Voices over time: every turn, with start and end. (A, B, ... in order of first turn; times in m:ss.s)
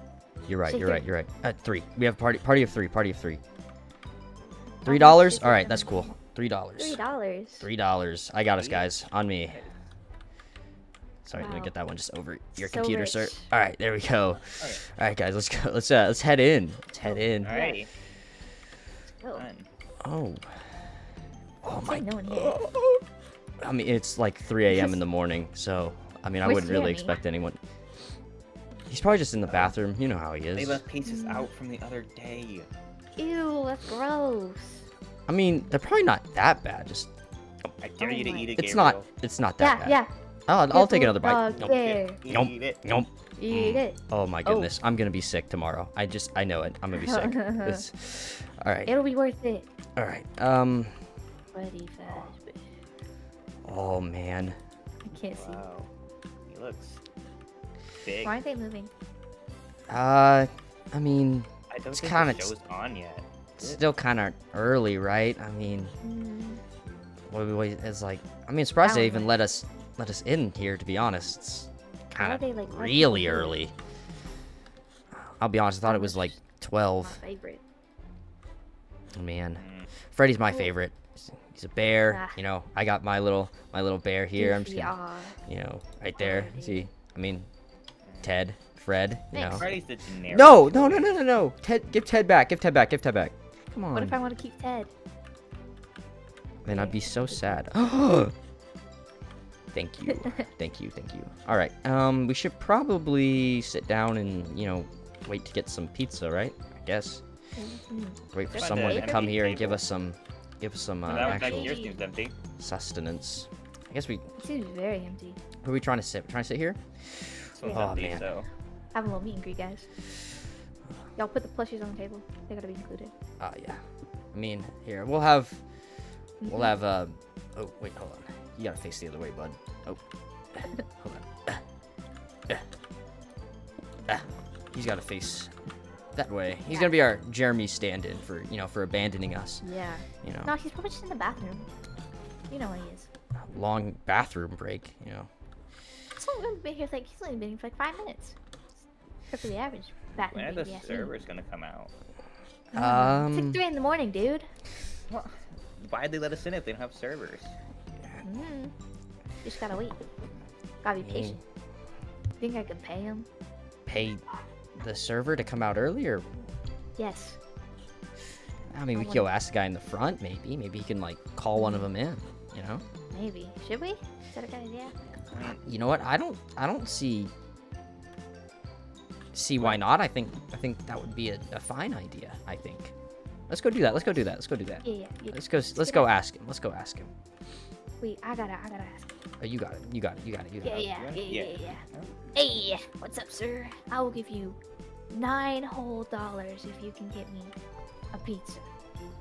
0:00.5-0:03.4 A
0:00.7-0:01.0 B
0:04.8-0:06.1 B
0:04.8-0:07.0 A
0:06.8-0:07.7 B
0:07.6-0:09.6 A
0:08.5-0:09.7 C
0:11.2-0:17.6 A
0:11.4-0:11.7 B
0:12.6-0:13.5 B
0:17.0-0:17.8 B
0:17.4-0:17.9 C
0:19.3-0:19.7 C
0:20.0-0:20.6 A
0:21.6-0:23.0 A
0:21.9-0:22.6 B
0:23.6-0:27.6 A
0:24.7-0:25.0 B
0:26.4-0:27.2 B
0:28.9-0:30.8 A
0:29.4-0:29.8 C
0:30.5-0:32.7 C
0:31.0-0:31.5 B
0:33.2-0:34.8 B
0:35.3-0:37.1 A
0:37.8-0:39.1 C
0:38.0-0:38.5 B
0:38.6-0:48.9 A
0:39.6-0:40.1 B
0:40.7-0:42.2 B
0:41.6-0:42.8 C
0:43.4-0:44.7 B
0:47.0-0:47.8 B
0:48.9-0:49.7 B
0:50.0-0:51.0 A
0:51.5-0:52.7 B
0:53.6-0:54.6 A
0:55.0-0:55.6 B
0:55.2-0:55.9 C
0:56.5-0:57.0 C
0:58.0-0:58.3 C
0:58.2-0:58.9 B
0:59.9-1:02.5 A
1:01.7-1:03.8 C
1:03.6-1:05.9 A
1:06.0-1:06.6 B
1:07.3-1:13.7 A
1:08.8-1:09.3 B
1:12.2-1:13.6 B
1:15.1-1:17.2 A
1:15.8-1:16.4 B
1:17.0-1:17.6 B
1:19.2-1:27.5 A
1:19.6-1:19.9 C
1:22.1-1:22.4 B
1:24.4-1:25.4 B
1:26.2-1:26.9 B
1:28.1-1:28.3 C
1:28.2-1:29.8 A
1:29.3-1:29.7 B
1:29.5-1:31.2 C
1:30.3-1:34.2 A
1:33.9-1:34.9 B
1:36.6-1:38.3 A
1:36.7-1:37.6 B
1:39.7-1:47.2 A
1:47.6-1:49.2 B
1:48.3-1:51.8 A
1:48.6-1:49.8 C
1:51.1-1:52.4 C
1:51.1-1:51.9 B
1:52.6-1:54.2 A
1:54.4-1:55.4 B
1:55.6-1:58.3 A
1:57.6-1:58.5 C
1:58.9-1:59.9 B
2:01.2-2:03.1 B
2:03.4-2:03.8 A
2:04.3-2:05.6 A
2:06.4-2:06.8 B
2:06.4-2:10.0 A
2:10.5-2:11.6 A
2:14.1-2:15.5 A
2:16.2-2:19.6 A
2:16.7-2:17.0 B
2:19.6-2:21.7 B
2:20.2-2:20.5 A
2:22.5-2:23.1 B
2:23.5-2:25.3 A
2:26.2-2:28.4 B
2:29.3-2:31.1 B
2:30.2-2:31.9 C
2:32.7-2:34.5 B
2:32.7-2:33.6 A
2:35.1-2:37.6 C
2:38.2-2:38.7 B
2:39.4-2:40.0 B
2:40.8-2:41.4 B
2:41.0-2:41.4 A
2:42.4-2:43.3 B
2:43.9-2:44.2 A
2:44.8-2:46.3 A
2:47.0-2:47.4 B
2:48.7-2:52.8 A
2:48.9-2:49.3 B
2:51.6-2:51.9 B
2:53.1-2:54.9 B
2:55.3-2:55.6 C
2:55.6-2:57.3 A
2:59.3-3:02.9 A
3:03.5-3:07.1 A
3:04.8-3:06.1 B
3:08.0-3:09.1 B
3:09.4-3:10.9 A
3:10.6-3:11.8 B
3:11.0-3:12.2 C
3:12.4-3:14.6 B
3:15.1-3:17.6 B
3:18.1-3:18.6 B